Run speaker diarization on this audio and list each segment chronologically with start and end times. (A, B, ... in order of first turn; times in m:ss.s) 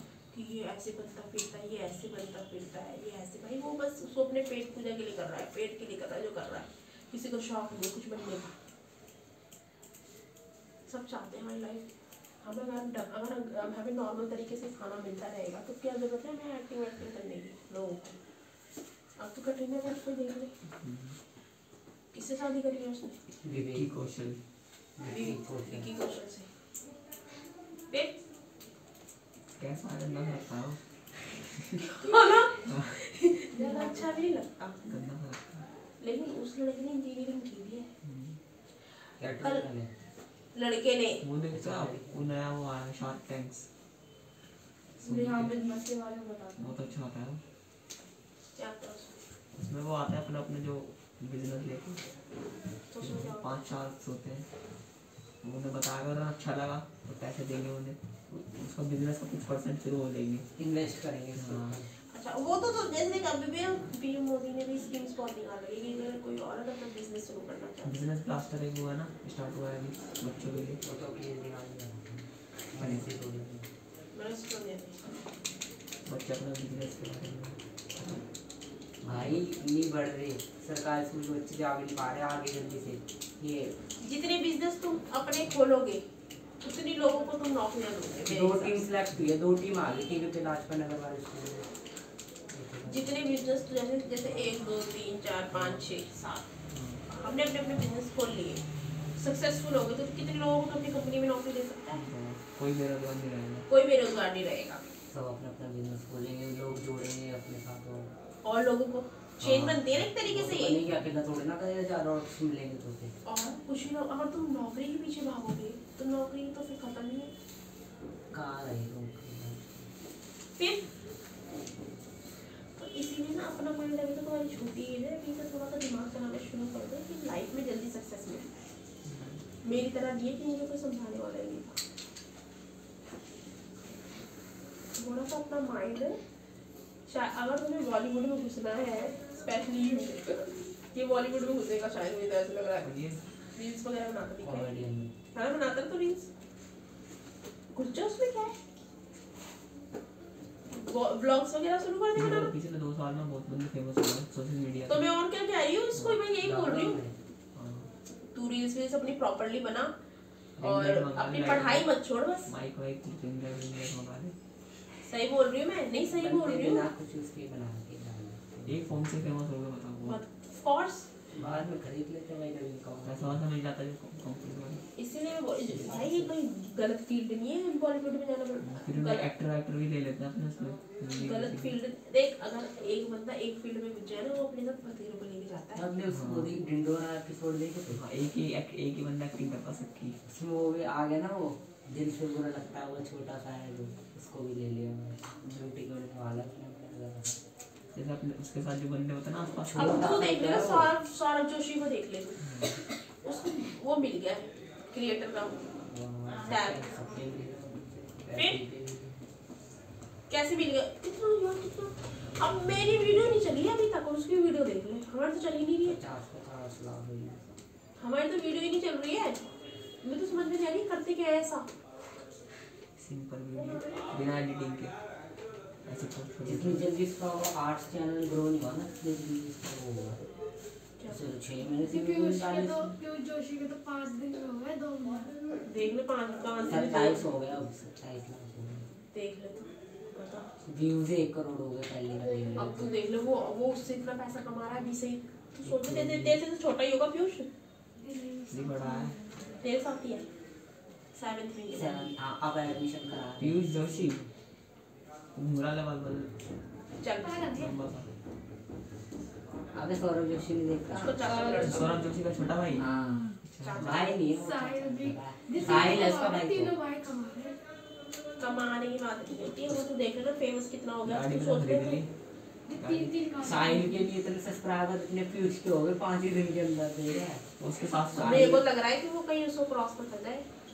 0:00.3-0:08.5 A
0:10.9-0:11.8 A
0:12.4-0:18.2 A
0:19.2-0:20.5 A
0:20.8-0:21.2 B
0:22.1-0:23.2 A
0:23.4-0:23.9 C
0:23.5-0:24.4 B
0:25.0-0:25.9 C
0:25.1-0:26.5 A
0:29.6-0:30.8 B
0:31.5-0:31.9 B
0:32.0-0:34.8 A
0:32.6-0:32.9 B
0:33.5-0:34.1 D
0:34.8-0:35.6 B
0:36.0-0:37.9 A
0:38.0-0:38.4 B
0:39.2-0:39.9 C
0:39.4-0:39.6 A
0:40.5-0:41.2 A
0:41.2-0:43.7 B
0:41.5-0:42.2 C
0:45.0-0:46.8 D
0:45.0-0:45.6 B
0:46.6-0:47.4 B
0:48.6-0:49.2 A
0:49.6-0:52.1 B
0:52.9-0:53.5 A
0:53.0-0:54.5 B
0:55.4-1:00.5 B
1:00.6-1:01.9 C
1:01.3-1:01.8 B
1:02.1-1:07.9 A
1:07.8-1:10.8 B
1:10.8-1:13.7 C
1:12.8-1:13.1 B
1:14.1-1:15.1 A
1:16.0-1:18.2 B
1:19.0-1:19.4 B
1:19.0-1:23.7 C
1:24.0-1:26.0 A
1:26.6-1:28.8 A
1:28.2-1:31.7 C
1:32.5-1:33.2 C
1:32.9-1:36.5 A
1:36.7-1:37.0 B
1:37.1-1:38.6 A
1:39.2-1:42.0 A
1:41.9-1:43.7 B
1:43.7-1:44.8 A
1:45.1-1:48.1 C
1:48.4-1:50.8 A
1:49.4-1:53.2 C
1:53.2-1:57.3 A
1:58.3-1:59.9 C
2:02.8-2:08.6 A
2:09.0-2:09.4 B
2:09.6-2:11.8 A
2:14.9-2:16.2 A
2:17.1-2:22.9 A
2:22.8-2:23.2 B
2:23.5-2:24.7 A
2:24.4-2:25.1 C
2:25.3-2:26.3 A
2:27.7-2:28.5 A
2:30.7-2:32.5 A
2:32.1-2:35.0 B
2:34.9-2:37.0 A
2:36.4-2:37.2 C
2:37.5-2:37.9 B
2:38.3-2:39.9 A
2:40.6-2:41.9 B
2:40.6-2:42.5 A
2:42.4-2:44.3 B
2:45.0-2:46.9 A
2:46.1-2:49.0 C
2:48.6-2:50.2 B
2:50.0-2:51.1 A
2:51.3-2:53.4 C
2:53.0-2:54.8 B
2:55.0-2:59.3 A
2:55.6-2:56.3 C
2:58.6-3:01.8 B
3:01.2-3:05.8 A
3:05.7-3:08.0 C
3:06.1-3:06.5 B
3:07.9-3:10.2 B
3:10.2-3:17.4 C
3:17.9-3:20.1 B
3:19.6-3:20.9 C
3:19.7-3:25.6 A
3:25.8-3:29.2 C
3:26.5-3:27.0 A
3:28.3-3:28.6 A
3:30.3-3:36.0 A
3:35.8-3:37.5 C
3:38.0-3:39.4 A
3:40.0-3:41.7 A
3:43.0-3:45.0 B
3:43.6-3:44.0 A
3:45.8-3:46.8 B
3:46.4-3:50.3 C
3:51.1-3:53.0 C
3:51.8-3:55.7 E
3:55.6-3:57.3 A
3:56.7-3:58.9 C
3:59.1-4:00.5 A
4:00.6-4:03.0 C
4:02.6-4:07.5 A
4:05.6-4:06.4 C
4:08.0-4:09.3 E
4:08.5-4:09.2 B
4:09.6-4:10.2 A
4:11.1-4:12.1 A
4:11.7-4:13.6 C
4:13.4-4:14.2 B
4:15.3-4:16.3 B
4:17.0-4:17.7 A
4:17.2-4:17.8 E
4:17.5-4:18.1 B
4:19.7-4:21.8 C
4:20.9-4:22.0 A
4:21.4-4:24.0 B
4:22.8-4:23.4 E
4:22.8-4:26.7 C
4:23.6-4:24.2 A
4:24.3-4:27.6 E
4:28.4-4:32.0 A
4:31.0-4:32.1 B
4:32.7-4:34.1 E
4:32.7-4:33.1 B
4:33.4-4:37.5 C
4:37.6-4:38.6 B
4:38.1-4:38.6 C
4:38.2-4:40.4 A